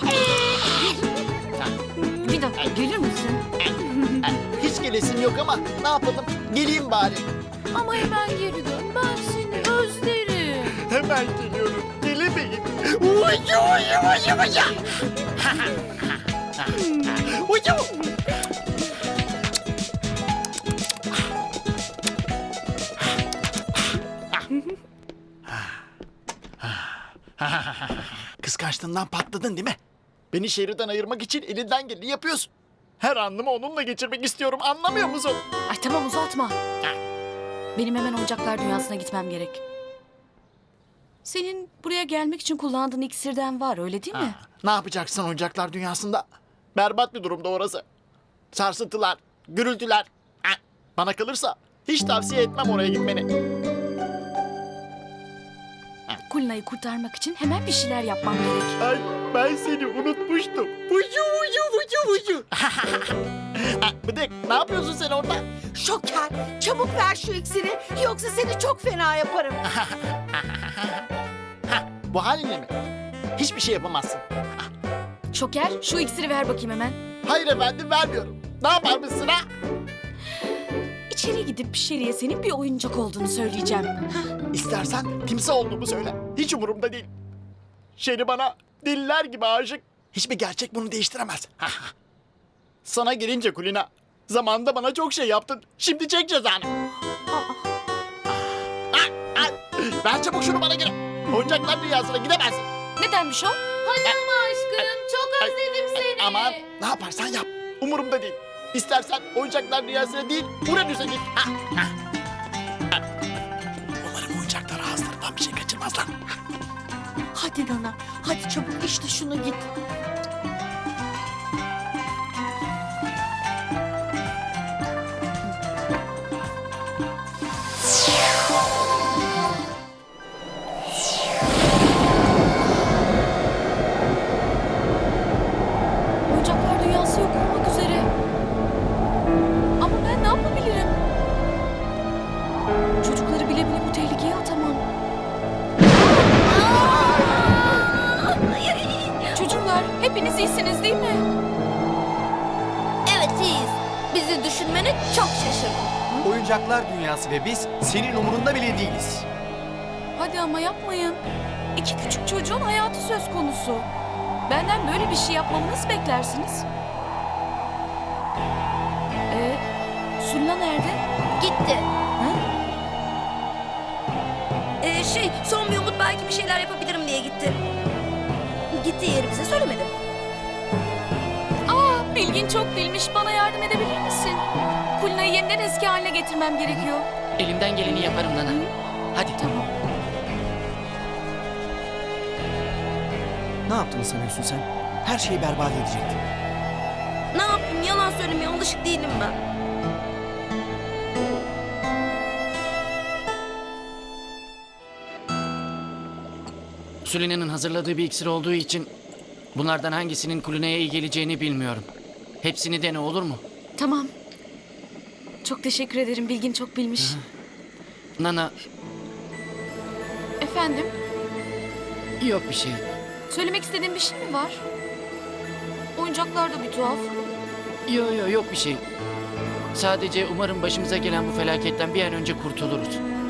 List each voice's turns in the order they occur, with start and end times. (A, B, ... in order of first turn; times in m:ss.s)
0:00.6-0:00.9 A
0:02.2-0:03.4 B
0:03.6-0:07.3 A
0:08.2-0:10.6 B
0:10.6-0:14.9 A
0:15.4-0:15.8 A
0:16.6-0:18.0 A
0:27.4-0:29.8 A
0:30.3-0:35.4 A
0:35.7-0:36.6 B
0:37.8-0:39.6 B
0:41.2-0:44.4 B
0:44.1-0:47.8 A
0:48.5-0:53.3 A
0:56.3-0:58.8 B
0:58.8-1:05.5 A
1:05.7-1:09.6 C
1:09.7-1:10.8 A
1:11.7-1:12.7 A
1:13.4-1:14.2 A
1:15.3-1:17.0 B
1:17.2-1:19.4 A
1:21.1-1:24.0 B
1:24.5-1:27.1 A
1:28.0-1:31.9 A
1:32.8-1:36.7 A
1:37.3-1:37.7 C
1:38.3-1:42.7 A
1:43.0-1:43.6 B
1:43.8-1:46.6 D
1:44.8-1:51.9 A
1:54.0-1:56.1 A
1:57.3-1:59.7 C
2:16.3-2:18.1 B
2:19.8-2:21.0 B
2:23.0-2:24.8 B
2:26.4-2:29.2 D
2:29.3-2:31.3 B
2:33.1-2:36.2 D
2:36.2-2:39.3 E
2:40.2-2:41.2 B
2:41.8-2:43.9 B
2:44.5-2:46.7 B
2:49.3-2:49.6 B
2:50.2-2:51.0 B
2:51.4-2:51.9 D
2:54.8-2:57.6 D
2:58.7-3:00.0 D
3:01.7-3:07.1 B
3:07.4-3:08.6 F
3:09.4-3:09.7 B
3:13.7-3:16.2 E
3:17.3-3:19.4 D
3:27.0-3:28.9 F
3:29.5-3:31.9 F
3:32.4-3:33.4 F
3:33.8-3:34.1 B
3:35.4-3:37.2 B
3:38.2-3:38.5 F
3:40.4-3:40.9 B
3:42.2-3:42.8 F
3:43.3-3:44.6 B
3:46.0-3:47.1 B
3:47.9-3:48.8 F
3:49.7-3:53.0 F